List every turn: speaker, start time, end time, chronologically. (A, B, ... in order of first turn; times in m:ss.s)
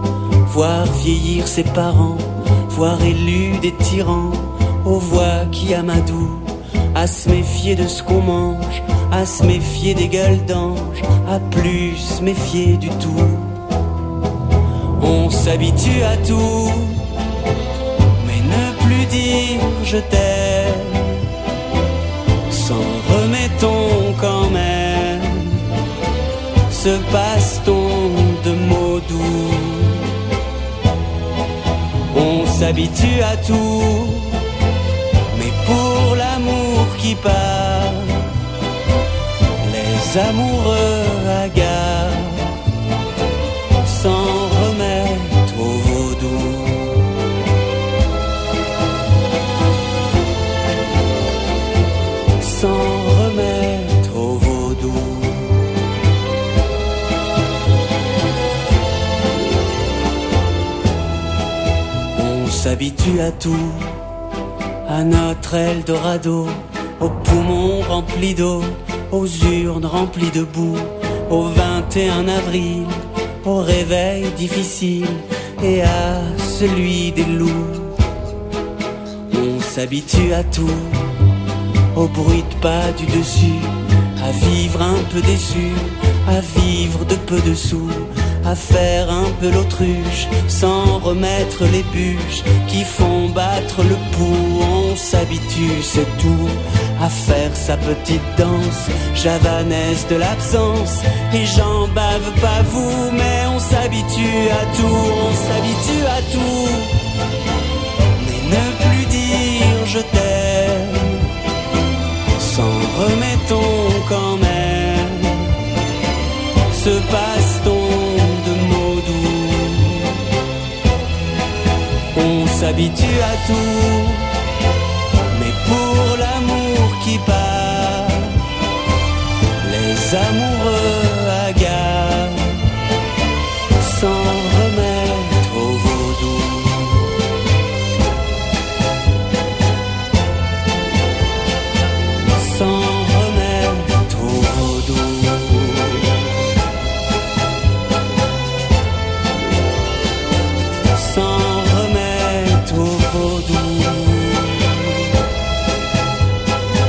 0:00.4-0:13.5 A
0:15.0-0:17.0 A
0:18.2-0:21.2 A
0:22.5-0:25.6 A
0:26.7-0:30.1 A
0:32.1-0:34.4 A
0:35.3-0:38.3 A
0:39.6-0:42.5 A
0:43.8-0:47.1 A
0:52.4-0:55.6 A
1:02.1-1:04.0 A
1:04.9-1:17.9 A
1:19.3-1:21.1 A
1:21.9-1:46.9 A
1:48.2-1:51.3 A
1:52.4-1:55.5 A
1:56.7-2:00.2 A
2:02.1-2:04.3 A
2:05.3-2:08.4 A
2:09.6-2:12.6 A
2:13.8-2:17.1 A
2:22.4-2:26.1 A
2:30.9-2:35.1 A